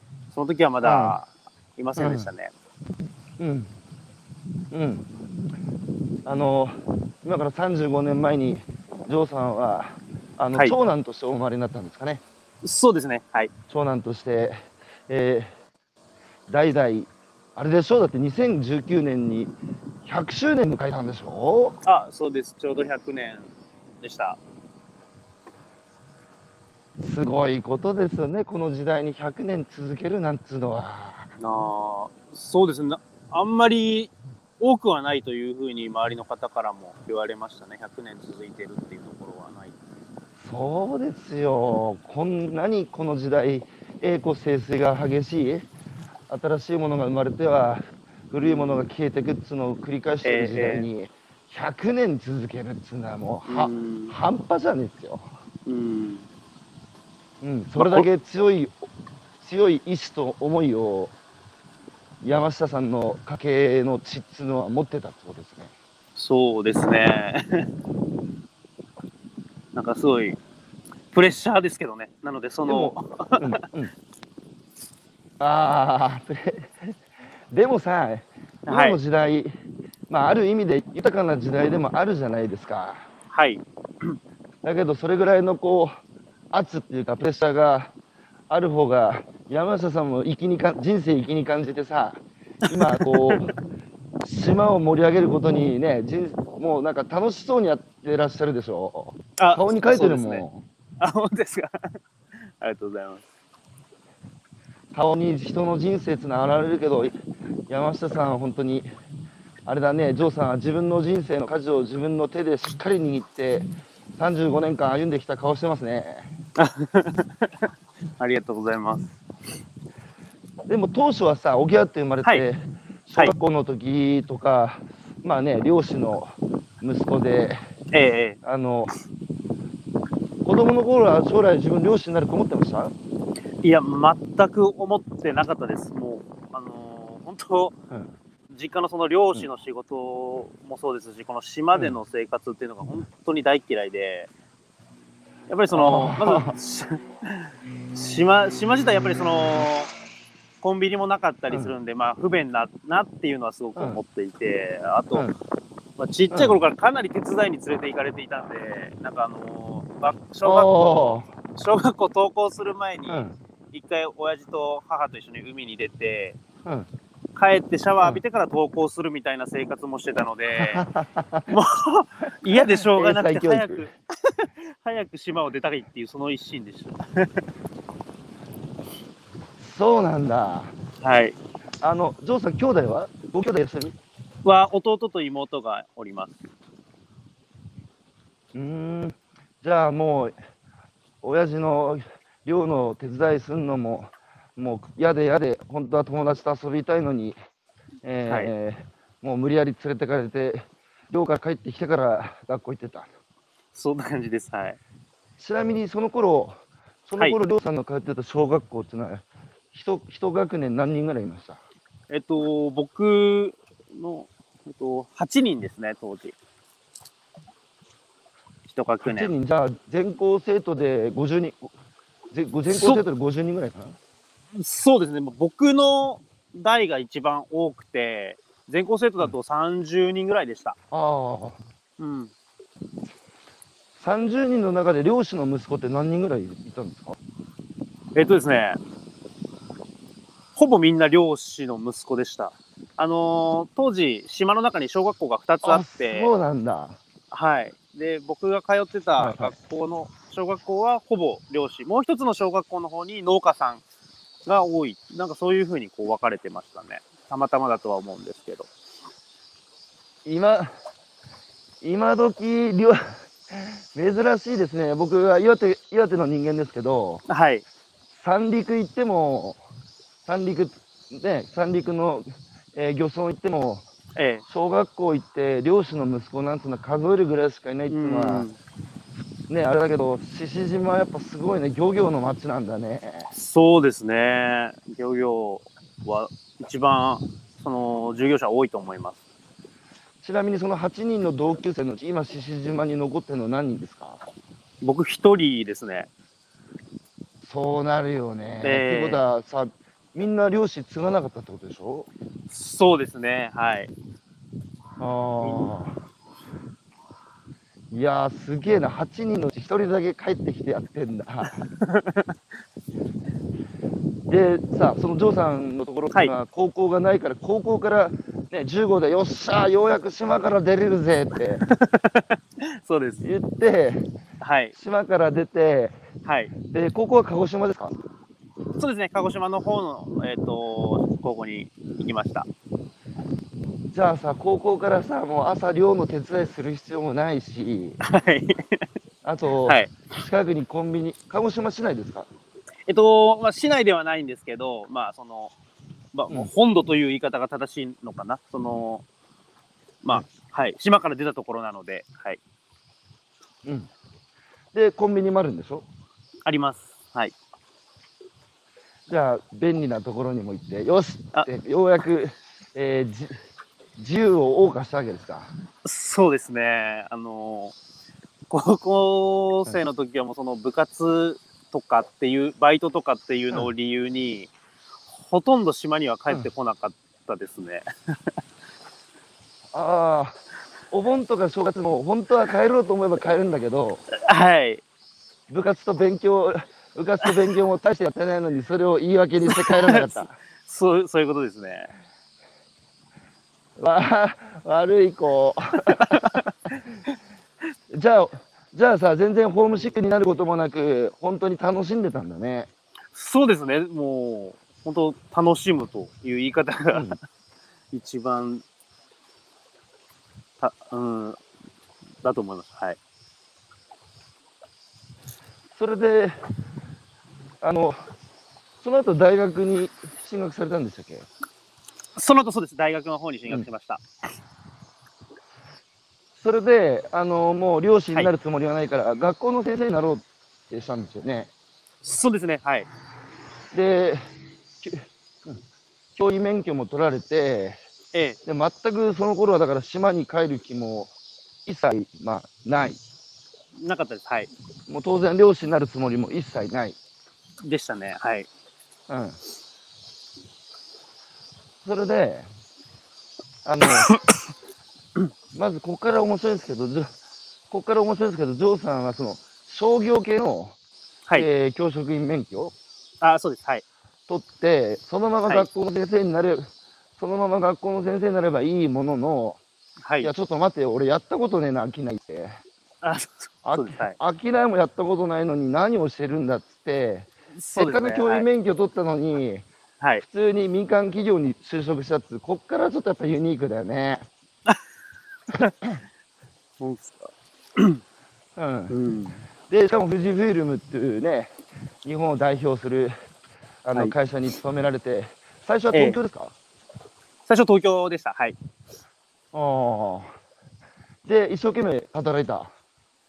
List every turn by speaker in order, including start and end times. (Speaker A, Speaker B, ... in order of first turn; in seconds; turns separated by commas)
Speaker A: 0.3-2.5, Speaker B: 0.8-1.2, Speaker B: 2.0-2.3, Speaker B: 3.4-3.7, Speaker B: 4.7-5.1, Speaker B: 6.2-12.2, Speaker A: 12.6-13.5, Speaker B: 13.7-15.5, Speaker B: 16.5-19.5, Speaker B: 20.1-21.8, Speaker A: 21.8-24.4, Speaker B: 27.0-31.3, Speaker A: 31.4-39.8, Speaker B: 40.4-45.7, Speaker B: 46.3-55.3, Speaker A: 48.4-48.8, Speaker A: 50.2-50.9, Speaker A: 53.5-54.1, Speaker A: 55.7-56.2, Speaker B: 57.4-58.8, Speaker A: 57.8-58.1, Speaker B: 59.4-61.1, Speaker B: 62.2-65.7, Speaker A: 66.2-67.7, Speaker A: 69.7-70.4, Speaker A: 71.1-73.4, Speaker B: 72.7-73.9, Speaker B: 75.4-77.0, Speaker B: 77.5-79.5, Speaker A: 78.7-79.0, Speaker B: 80.1-83.1, Speaker A: 83.3-84.2, Speaker B: 84.6-85.9, Speaker B: 86.5-87.9, Speaker B: 88.5-93.5, Speaker A: 92.7-93.5, Speaker B: 94.2-100.6, Speaker A: 99.4-100.5, Speaker A: 101.0-101.9, Speaker A: 102.6-103.2, Speaker B: 104.9-107.1, Speaker B: 107.7-108.9, Speaker B: 109.7-116.3, Speaker A: 116.6-117.5, Speaker A: 118.2-119.1, Speaker B: 120.7-127.6, Speaker A: 127.9-128.4, Speaker B: 128.4-128.9, Speaker B: 130.4-132.9, Speaker A: 133.6-137.7, Speaker A: 138.5-144.3, Speaker A: 145.5-149.9, Speaker B: 145.7-146.6, Speaker A: 150.6-155.3, Speaker A: 156.0-166.4, Speaker B: 156.3-156.6, Speaker B: 160.4-161.3, Speaker B: 163.1-163.3, Speaker A: 167.3-170.8, Speaker B: 170.6-171.5, Speaker A: 171.5-177.5, Speaker B: 172.5-173.9, Speaker B: 179.6-180.7, Speaker A: 181.0-181.4, Speaker B: 181.8-184.0, Speaker A: 184.4-186.5, Speaker B: 188.5-190.3, Speaker B: 191.2-197.4, Speaker B: 198.0-203.1, Speaker A: 203.7-204.8, Speaker B: 205.4-206.6, Speaker B: 207.1-211.6, Speaker A: 212.1-216.4, Speaker A: 218.7-219.3, Speaker B: 219.0-221.7, Speaker B: 222.3-224.0, Speaker A: 222.7-223.0, Speaker A: 224.5-230.8, Speaker B: 230.9-231.6, Speaker A: 232.0-232.3, Speaker B: 234.0-237.2, Speaker A: 238.2-238.8, Speaker A: 240.6-246.3, Speaker B: 245.6-247.0, Speaker A: 247.3-253.8, Speaker B: 249.2-249.5, Speaker A: 254.4-258.7, Speaker B: 260.2-260.7, Speaker B: 261.8-267.2, Speaker A: 267.3-267.6, Speaker B: 268.1-269.6, Speaker B: 270.3-273.9, Speaker A: 274.2-274.4, Speaker B: 274.5-278.5, Speaker A: 277.9-278.6, Speaker B: 279.5-283.3, Speaker A: 283.3-289.2, Speaker B: 290.2-294.2, Speaker A: 294.8-296.1, Speaker B: 297.4-302.1, Speaker A: 298.6-299.2, Speaker A: 302.5-303.9, Speaker B: 305.0-305.9, Speaker A: 305.4-305.7, Speaker B: 307.9-311.6, Speaker A: 311.7-312.3, Speaker B: 314.3-321.6, Speaker A: 321.6-323.2, Speaker B: 323.2-324.1, Speaker A: 324.4-324.7, Speaker B: 324.8-326.0, Speaker A: 326.3-326.5, Speaker B: 326.6-327.9, Speaker A: 328.8-332.5, Speaker B: 333.9-338.0, Speaker A: 338.0-338.8, Speaker B: 339.2-342.3, Speaker A: 339.6-339.9, Speaker A: 342.9-345.5, Speaker A: 346.1-349.0, Speaker A: 350.0-352.4, Speaker B: 353.6-353.9, Speaker B: 354.7-355.9, Speaker A: 356.4-357.3, Speaker B: 359.1-363.4, Speaker B: 364.0-365.5, Speaker A: 365.8-367.8, Speaker A: 368.5-374.5, Speaker A: 375.2-378.4, Speaker B: 379.7-380.4, Speaker B: 380.9-384.0, Speaker A: 384.2-384.8, Speaker B: 385.5-390.4, Speaker A: 389.5-391.9, Speaker B: 393.8-396.2, Speaker A: 395.9-396.5, Speaker B: 397.9-402.7, Speaker A: 403.1-407.2, Speaker B: 406.9-407.2, Speaker A: 407.9-408.6, Speaker A: 410.6-411.4, Speaker A: 412.2-413.0, Speaker B: 415.8-416.4, Speaker B: 417.6-418.0, Speaker B: 418.8-421.3, Speaker A: 422.1-424.0, Speaker B: 426.4-431.5, Speaker A: 432.0-432.9, Speaker B: 433.7-434.2, Speaker B: 434.8-435.6, Speaker B: 436.2-437.8, Speaker A: 438.1-438.4, Speaker B: 438.5-441.1, Speaker B: 441.7-443.0, Speaker A: 443.8-444.5, Speaker B: 444.9-447.0, Speaker A: 447.6-448.5, Speaker B: 449.1-449.4, Speaker B: 451.8-452.5, Speaker B: 453.6-454.1, Speaker B: 455.5-457.1, Speaker B: 457.7-460.7, Speaker B: 461.3-462.7, Speaker A: 463.2-463.8, Speaker B: 464.3-469.6, Speaker A: 470.0-470.3, Speaker B: 470.2-472.6, Speaker A: 473.0-474.2, Speaker B: 473.6-479.7, Speaker A: 477.6-478.5, Speaker B: 480.2-484.2, Speaker A: 486.8-487.2, Speaker B: 488.6-488.9, Speaker A: 488.9-489.4, Speaker B: 489.7-491.5, Speaker B: 492.0-493.1, Speaker B: 493.8-496.5, Speaker A: 495.9-496.2, Speaker A: 497.5-498.6, Speaker B: 499.5-500.3, Speaker B: 501.2-502.7